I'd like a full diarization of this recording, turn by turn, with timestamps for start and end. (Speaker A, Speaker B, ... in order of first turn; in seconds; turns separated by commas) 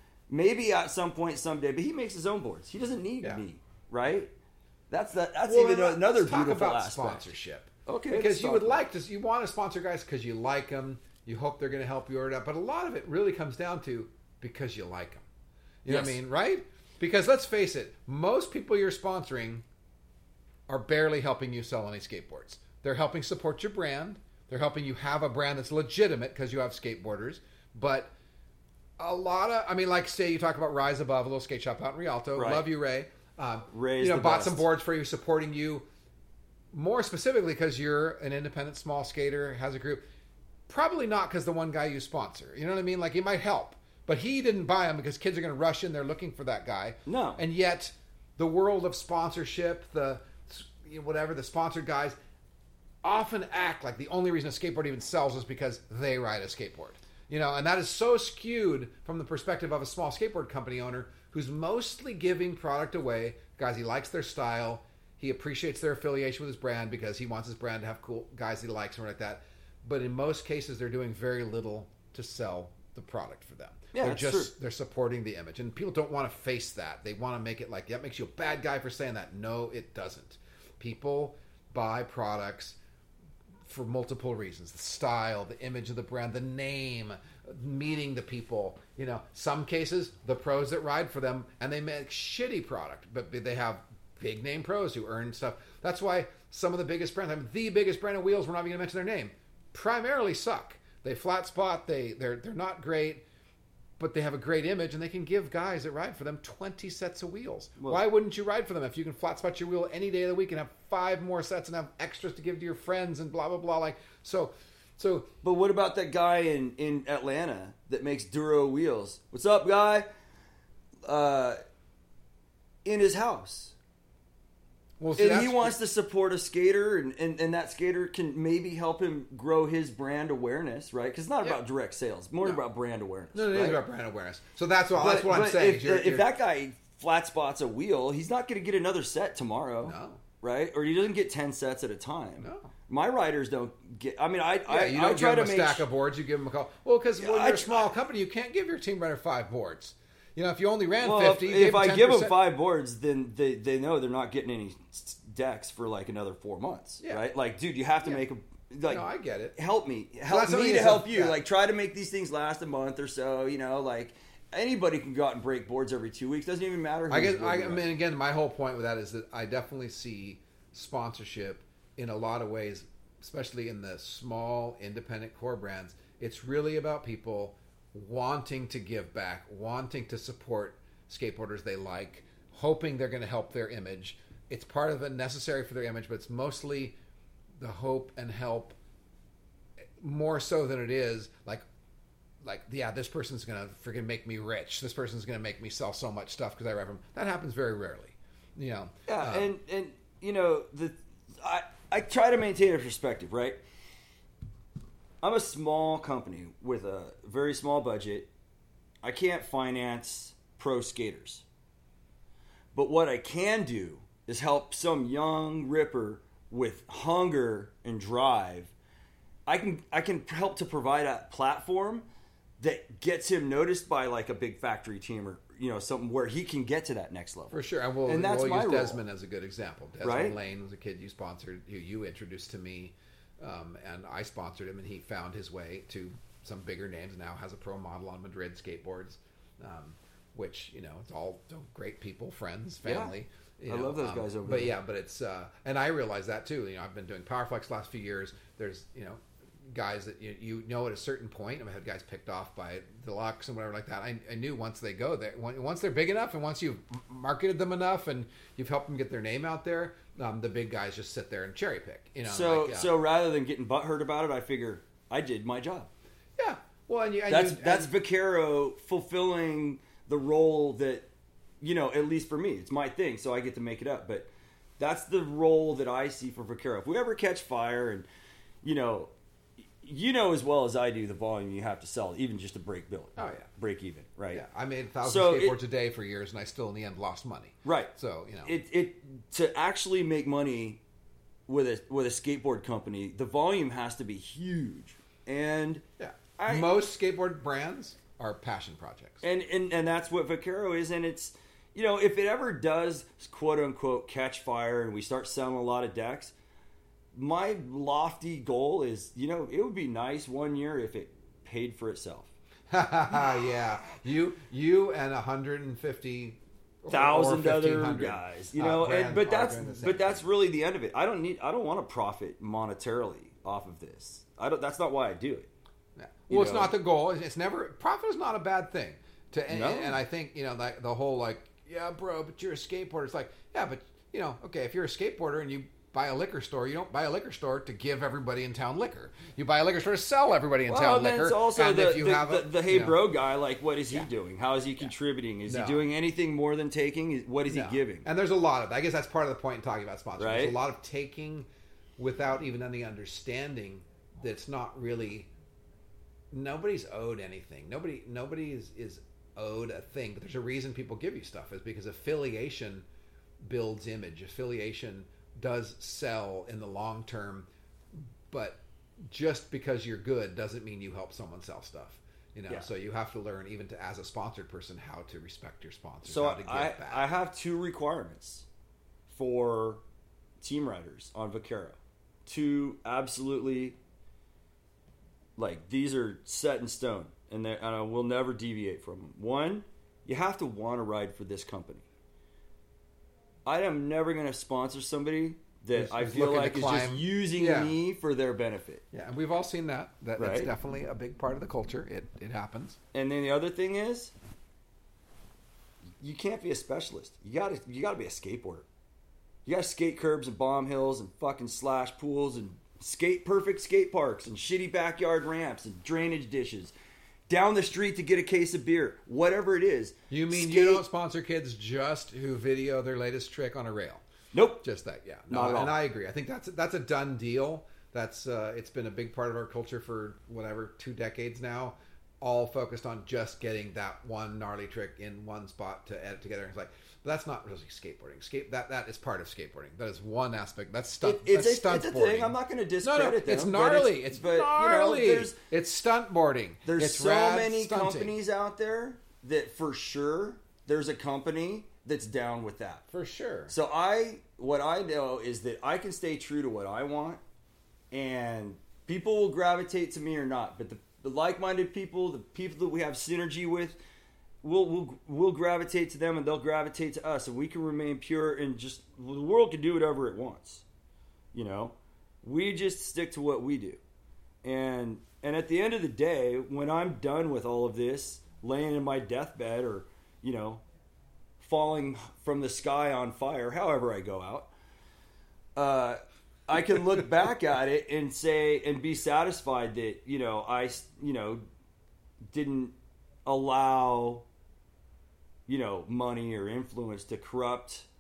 Speaker A: 0.3-4.3, Speaker A: 4.9-7.3, Speaker B: 5.5-15.3, Speaker A: 7.9-8.8, Speaker B: 15.8-19.6, Speaker A: 15.9-16.2, Speaker B: 20.7-28.1, Speaker B: 29.0-35.9, Speaker A: 32.4-32.7, Speaker A: 33.7-34.6, Speaker B: 36.7-40.0, Speaker B: 40.7-52.2, Speaker A: 47.1-47.4, Speaker B: 53.0-82.8, Speaker A: 73.9-74.5, Speaker B: 83.7-103.2, Speaker B: 104.0-115.3, Speaker A: 115.4-120.1, Speaker A: 121.1-121.6, Speaker A: 122.8-123.7, Speaker B: 125.0-125.8, Speaker A: 125.2-133.8, Speaker B: 133.3-136.3, Speaker A: 134.9-145.8, Speaker B: 139.8-140.2, Speaker B: 142.4-142.7, Speaker B: 144.7-152.4, Speaker A: 147.2-147.9, Speaker A: 151.0-167.9, Speaker B: 158.9-159.5, Speaker B: 160.3-161.4, Speaker B: 167.1-186.9, Speaker B: 187.6-188.8, Speaker B: 190.0-191.7, Speaker B: 192.4-199.5, Speaker A: 199.1-203.6, Speaker A: 205.2-208.3, Speaker A: 209.0-211.4, Speaker A: 212.7-218.7, Speaker A: 219.5-222.1, Speaker A: 222.6-229.0, Speaker B: 227.5-262.9, Speaker A: 230.0-230.4, Speaker A: 242.8-243.1, Speaker A: 243.7-244.8, Speaker A: 262.2-265.9, Speaker B: 266.4-267.9, Speaker A: 267.3-271.1, Speaker A: 271.6-278.1, Speaker A: 278.6-279.1, Speaker A: 279.8-284.4, Speaker B: 283.2-283.5, Speaker B: 284.3-288.5, Speaker A: 285.0-285.6, Speaker A: 287.6-287.9, Speaker A: 288.4-290.8, Speaker A: 291.5-295.8, Speaker B: 296.0-299.2, Speaker A: 296.4-296.7, Speaker A: 299.2-306.3, Speaker A: 307.1-312.3, Speaker B: 312.7-320.3, Speaker A: 316.9-325.5, Speaker B: 326.0-343.0, Speaker A: 326.3-326.7, Speaker A: 329.5-330.0, Speaker A: 340.7-348.1, Speaker B: 345.5-345.9, Speaker B: 347.5-351.5, Speaker A: 350.2-350.6, Speaker B: 352.0-355.3, Speaker B: 356.3-362.9, Speaker B: 363.4-367.5, Speaker B: 368.3-377.1, Speaker A: 376.0-378.5, Speaker A: 379.1-379.8, Speaker A: 380.4-383.8, Speaker A: 385.4-391.8, Speaker A: 393.5-398.8, Speaker B: 395.7-397.8, Speaker B: 398.9-402.8, Speaker A: 400.2-400.5, Speaker A: 402.9-404.1, Speaker A: 406.0-408.7, Speaker A: 409.5-416.7, Speaker A: 417.3-420.8, Speaker B: 420.1-424.0, Speaker A: 424.3-424.6, Speaker B: 424.6-448.1, Speaker A: 425.3-425.8, Speaker A: 441.0-445.4, Speaker A: 446.6-452.8, Speaker B: 452.9-453.5, Speaker A: 453.5-457.2, Speaker A: 457.9-463.8, Speaker A: 464.4-470.6, Speaker A: 471.3-473.8, Speaker A: 474.4-480.6, Speaker A: 481.4-484.5, Speaker A: 485.6-491.4, Speaker A: 492.3-492.7, Speaker A: 493.2-494.2, Speaker A: 495.5-497.9